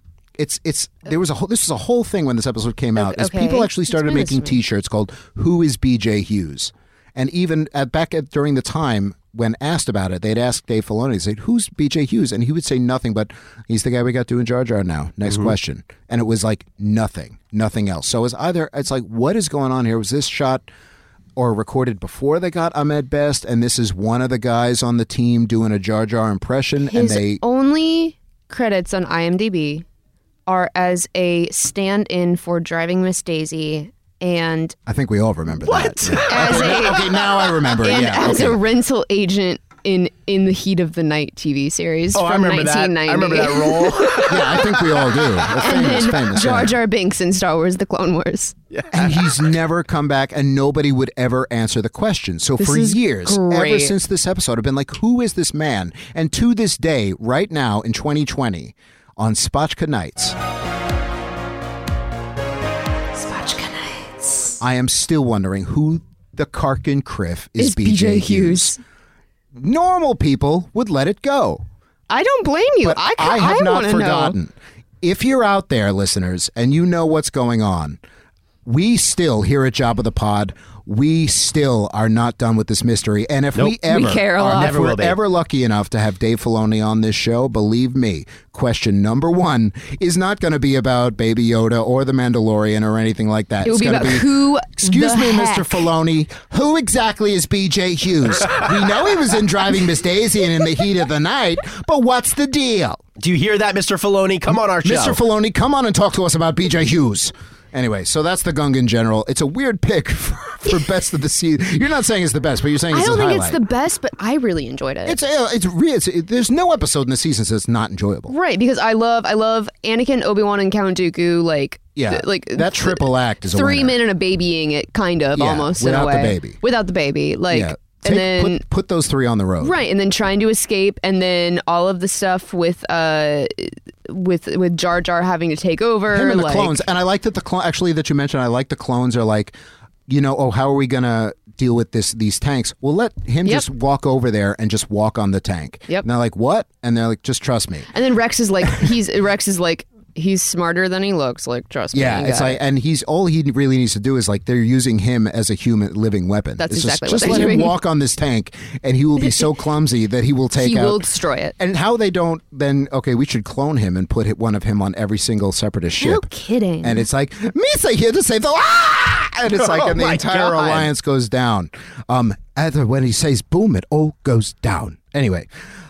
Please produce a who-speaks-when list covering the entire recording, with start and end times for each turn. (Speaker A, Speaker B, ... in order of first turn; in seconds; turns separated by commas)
Speaker A: 0.4-20.6, Speaker B: 3.0-4.5, Speaker A: 21.4-27.4, Speaker B: 26.8-29.8, Speaker B: 30.5-34.8, Speaker A: 34.9-38.6, Speaker C: 35.6-36.7, Speaker B: 36.2-44.6, Speaker C: 42.1-45.5, Speaker A: 44.2-46.8, Speaker B: 45.5-48.5, Speaker C: 48.7-49.5, Speaker A: 48.9-60.4, Speaker B: 52.6-53.9, Speaker B: 63.1-64.6, Speaker A: 64.6-68.8, Speaker B: 67.6-68.8, Speaker A: 69.5-71.6, Speaker B: 72.1-74.3, Speaker A: 72.8-78.0, Speaker A: 78.6-103.0, Speaker B: 83.8-84.8, Speaker C: 84.4-85.2, Speaker B: 93.6-95.9, Speaker C: 103.2-105.2, Speaker A: 104.8-113.6, Speaker B: 112.9-115.2, Speaker A: 115.0-118.3, Speaker B: 118.3-128.6, Speaker A: 122.0-124.0, Speaker A: 125.3-126.6, Speaker A: 127.5-129.8, Speaker B: 129.6-136.8, Speaker A: 136.1-139.5, Speaker A: 140.1-147.9, Speaker B: 147.9-152.6, Speaker A: 151.9-161.1, Speaker B: 156.6-157.7, Speaker B: 160.6-161.5, Speaker A: 161.6-166.3, Speaker B: 166.0-167.0, Speaker A: 166.8-175.5, Speaker C: 169.5-170.9